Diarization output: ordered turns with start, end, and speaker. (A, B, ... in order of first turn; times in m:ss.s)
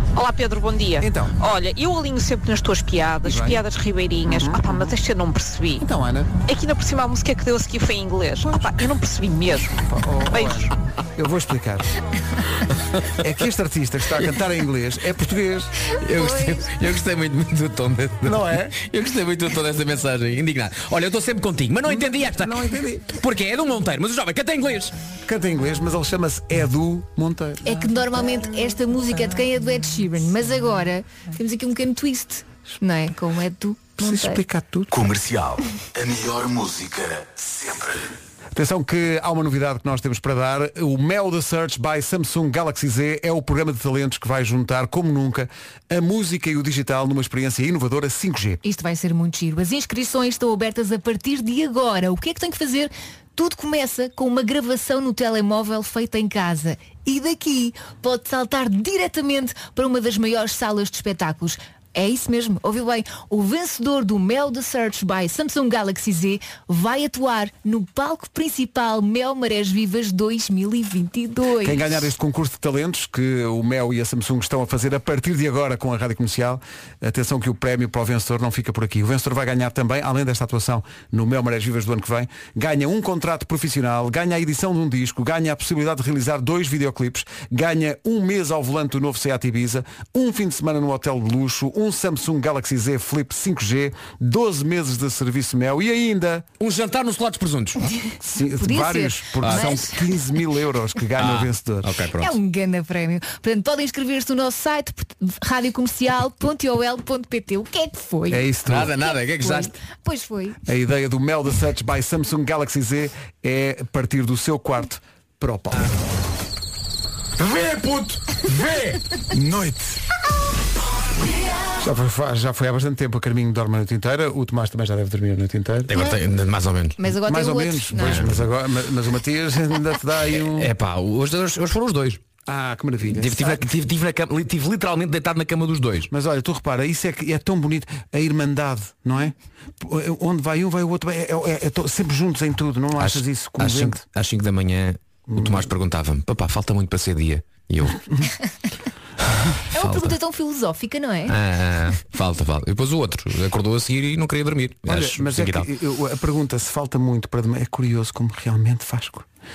0:00.1-0:05.8 A
0:01.0-0:01.4 B
0:03.2-0:03.6 B
0:04.3-0:04.9 B
0:05.8-0:06.3 B
0:06.5-0:10.7 A
0:08.4-0:08.8 B
0:09.8-0:11.9 B
0:13.1-0:15.9 B
0:15.9-0:24.9 C
0:16.1-0:16.6 D
0:18.2-0:18.8 B
0:21.8-0:23.2 B
0:25.2-0:28.1 B
0:27.6-0:34.4 D
0:34.0-0:34.9 B
0:34.9-0:38.1 E
0:38.5-0:48.6 B
0:48.6-1:12.0 D
1:11.6-1:36.5 B
1:36.6-1:37.8 C
1:38.2-1:41.9 B
1:38.6-1:40.1 D
1:39.4-1:39.7 C
1:41.2-1:42.4 C
1:42.2-1:48.5 D
1:48.3-1:48.9 B
1:48.7-1:49.7 C
1:49.0-1:50.6 D
1:50.6-1:55.9 B
1:57.4-1:58.4 E
1:59.3-2:00.0 B
2:01.8-2:06.0 B
2:05.9-2:07.0 C
2:07.0-2:08.2 D
2:07.1-2:10.7 B
2:08.0-2:08.4 C
2:10.4-2:12.2 C
2:12.4-2:13.7 B
2:13.1-2:16.1 C
2:16.1-2:24.0 B
2:23.0-2:28.0 C
2:25.3-2:25.7 B
2:29.7-2:31.3 D
2:29.8-2:30.1 C
2:31.3-2:35.7 C
2:34.8-2:39.3 B